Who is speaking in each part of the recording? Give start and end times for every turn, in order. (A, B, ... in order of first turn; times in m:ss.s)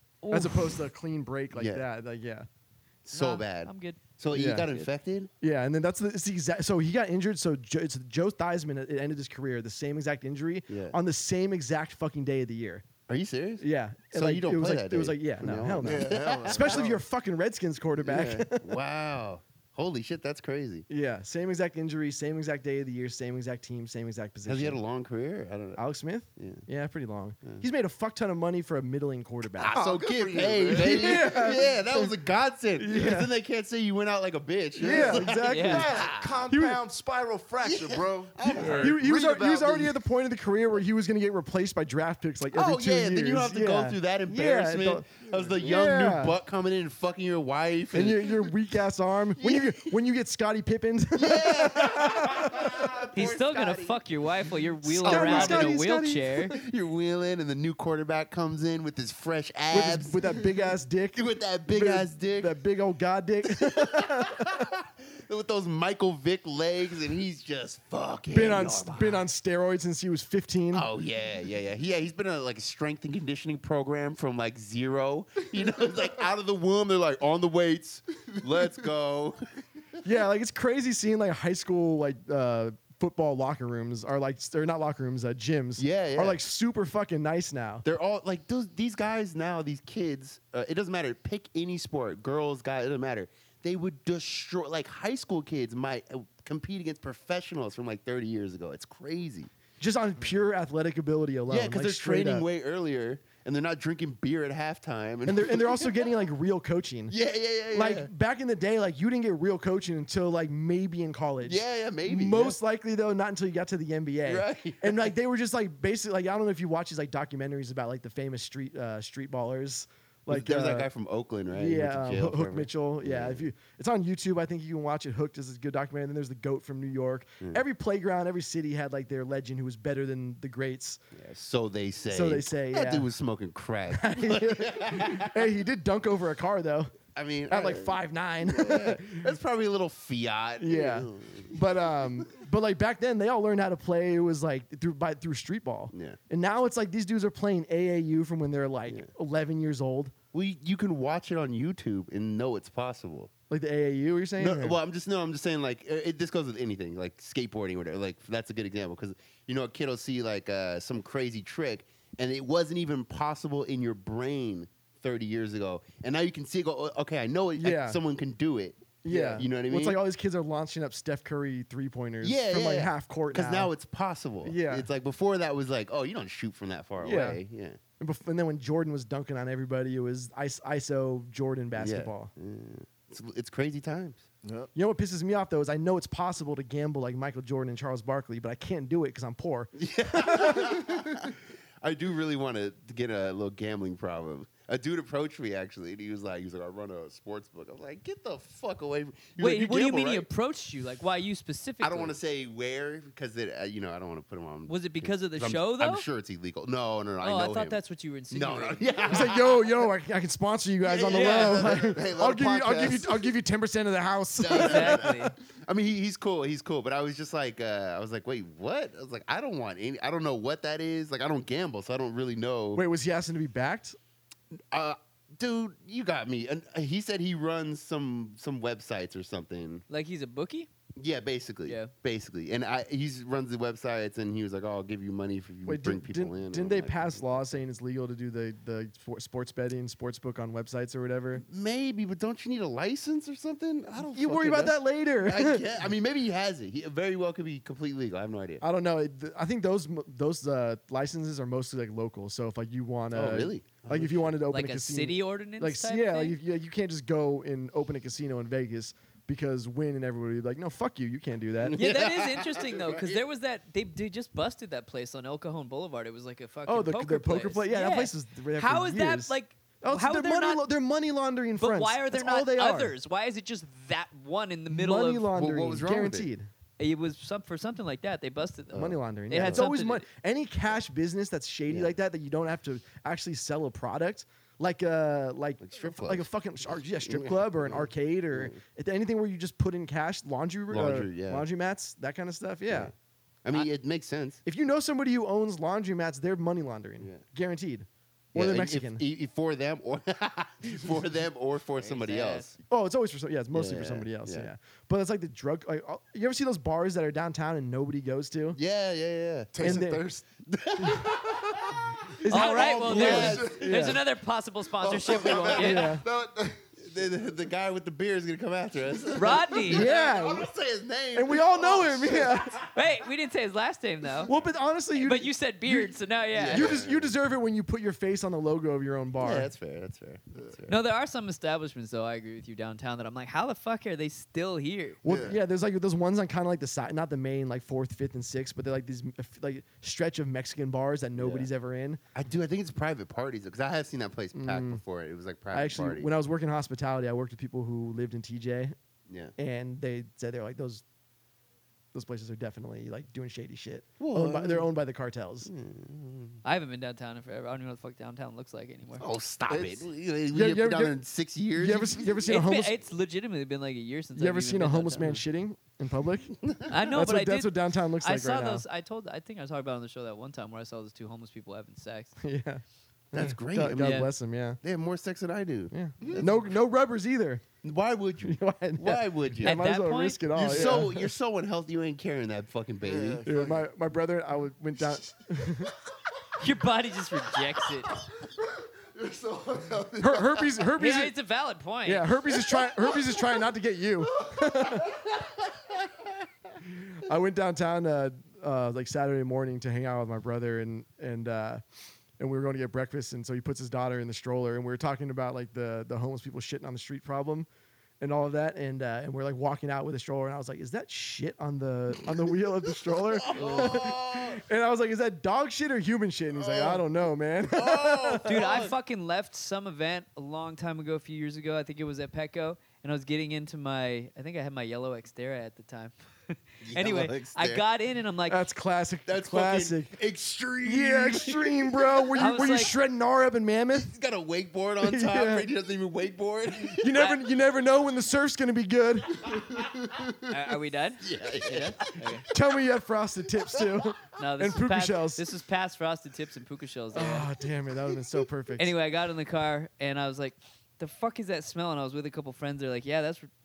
0:00.2-0:00.7 A
0:00.3-0:02.5 B
0:01.5-0:01.8 A
0:03.0-0:05.3 A
0:03.1-0:04.0 C
0:04.3-0:04.7 B
0:05.4-0:12.8 B
0:10.7-0:11.0 A
0:13.1-0:16.9 A
0:13.6-0:18.8 B
0:15.8-0:17.0 D
0:18.0-0:20.9 A
0:20.9-0:24.8 B
0:24.4-0:25.8 A
0:25.8-0:29.8 B
0:26.4-0:26.6 A
0:29.5-0:36.5 A
0:29.7-0:31.6 D
0:30.7-0:32.1 B
0:32.8-0:33.3 B
0:34.8-0:40.0 D
0:34.8-0:36.8 B
0:35.5-0:35.9 C
0:37.6-0:38.9 A
0:38.7-0:45.0 B
0:42.5-0:48.5 A
0:45.6-0:46.4 B
0:47.9-0:53.0 B
0:49.4-0:50.0 A
0:51.1-0:54.0 A
0:53.1-0:56.6 C
0:54.9-0:55.7 A
0:54.9-0:56.6 B
0:56.5-1:00.2 A
0:59.7-1:04.7 B
1:01.2-1:02.5 A
1:03.4-1:09.2 A
1:08.3-1:10.9 B
1:10.7-1:19.4 A
1:20.0-1:27.8 B
1:25.8-1:26.4 A
1:27.8-1:39.5 A
1:39.8-1:42.4 B
1:41.5-1:46.1 A
1:45.2-1:47.1 B
1:47.1-1:48.1 A
1:47.7-2:00.9 B
1:51.4-1:52.6 A
1:54.2-1:55.1 A
2:00.3-2:03.5 A
2:01.5-2:11.0 B
2:11.1-2:15.5 A
2:12.1-2:13.1 B
2:13.9-2:16.9 B
2:17.1-2:22.3 A
2:17.5-2:19.3 B
2:20.6-2:30.1 B
2:25.9-2:26.2 A
2:30.3-2:33.3 A
2:33.5-2:34.8 B
2:34.4-2:50.0 A
2:47.6-2:48.0 B
2:49.0-2:53.7 B
2:52.2-2:57.8 A
2:54.4-2:54.9 B
2:57.0-2:57.4 B
2:58.0-3:02.3 B
3:01.8-3:04.2 A
3:04.4-3:04.7 D
3:04.7-3:10.9 B
3:09.8-3:20.3 A
3:19.4-3:22.2 C
3:21.8-3:27.8 A
3:24.7-3:26.0 C
3:27.2-3:28.9 C
3:28.3-3:29.6 A
3:29.1-3:35.0 B
3:30.8-3:33.1 A
3:31.1-3:31.7 C
3:34.3-3:42.8 A
3:34.5-3:35.3 C
3:42.8-3:44.0 B
3:44.7-3:49.8 A
3:49.9-3:50.7 C
3:51.0-3:57.6 A
3:51.6-3:51.9 C
3:55.6-4:01.4 B
4:01.4-4:08.6 A
4:04.0-4:05.7 B
4:08.6-4:21.8 B
4:13.1-4:14.3 A
4:14.5-4:16.4 C
4:21.6-4:23.2 A
4:21.8-4:30.6 C
4:26.6-4:32.9 B
4:31.6-4:35.3 C
4:34.7-4:36.5 B
4:35.3-4:36.3 A
4:36.8-4:40.0 C
4:38.7-4:39.6 A
4:38.7-4:52.9 B
4:41.7-4:41.9 A
4:45.6-4:46.3 A
4:47.0-4:48.6 A
4:50.7-4:51.4 A
4:53.4-4:54.4 A
4:54.4-4:59.0 B
4:58.3-5:02.6 A
5:01.8-5:02.5 C
5:02.7-5:08.6 B
5:03.5-5:04.5 A
5:08.5-5:09.8 A
5:09.5-5:10.2 D
5:09.6-5:10.0 B
5:10.5-5:13.9 A
5:10.8-5:11.1 B
5:12.2-5:14.0 B
5:12.3-5:16.0 C
5:12.3-5:13.9 D
5:14.8-5:16.7 D
5:15.1-5:15.7 A
5:15.6-5:16.0 B
5:16.8-5:22.4 A
5:19.2-5:19.9 C
5:19.7-5:20.5 B
5:21.1-5:22.6 B
5:22.7-5:24.3 C
5:24.2-5:25.9 B
5:25.0-5:26.8 C
5:26.3-5:27.1 A
5:26.5-5:29.5 B
5:29.2-5:30.8 A
5:30.7-5:35.0 C
5:35.0-5:42.0 B
5:35.0-5:35.4 D
5:41.2-5:41.5 A
5:42.1-5:46.1 A
5:44.3-5:44.8 B
5:45.5-5:48.7 B
5:49.1-5:49.3 A
5:49.4-5:50.8 B
5:51.9-5:55.5 B
5:54.0-5:54.7 A
5:55.4-5:56.4 A
5:56.4-5:59.0 C
5:59.0-6:02.1 A
5:59.5-5:59.9 D
6:00.3-6:01.0 B
6:01.5-6:02.7 B
6:02.2-6:05.2 C
6:04.2-6:06.3 B
6:06.4-6:06.8 A
6:06.7-6:12.1 C
6:06.9-6:08.6 B
6:12.2-6:14.6 B
6:13.1-6:14.1 A
6:13.8-6:14.1 C
6:14.6-6:16.4 A
6:15.7-6:17.4 B
6:16.0-6:16.3 D
6:17.6-6:19.6 A
6:18.2-6:21.1 B
6:19.4-6:20.8 C
6:20.3-6:23.2 A
6:22.8-6:23.7 D
6:23.2-6:25.7 B
6:26.4-6:27.9 C
6:28.9-6:30.6 D
6:30.0-6:31.1 B
6:30.8-6:32.1 C
6:31.8-6:35.0 B
6:34.2-6:34.8 D
6:36.7-6:41.6 B
6:42.2-6:47.5 B
6:48.0-6:58.4 B
6:52.8-6:54.4 A
6:53.4-6:53.7 D
6:56.4-6:56.8 D
6:57.5-6:58.8 A
6:58.2-7:08.4 C
7:06.6-7:07.6 A
7:08.3-7:09.9 B
7:09.1-7:12.2 A
7:10.6-7:13.9 B
7:12.2-7:12.7 C
7:13.7-7:16.9 A
7:14.8-7:15.5 B
7:16.8-7:19.3 B
7:16.9-7:17.2 C
7:20.3-7:22.2 C
7:21.0-7:22.2 A
7:22.3-7:25.2 B
7:24.2-7:27.3 C
7:26.9-7:28.7 B
7:28.6-7:33.3 C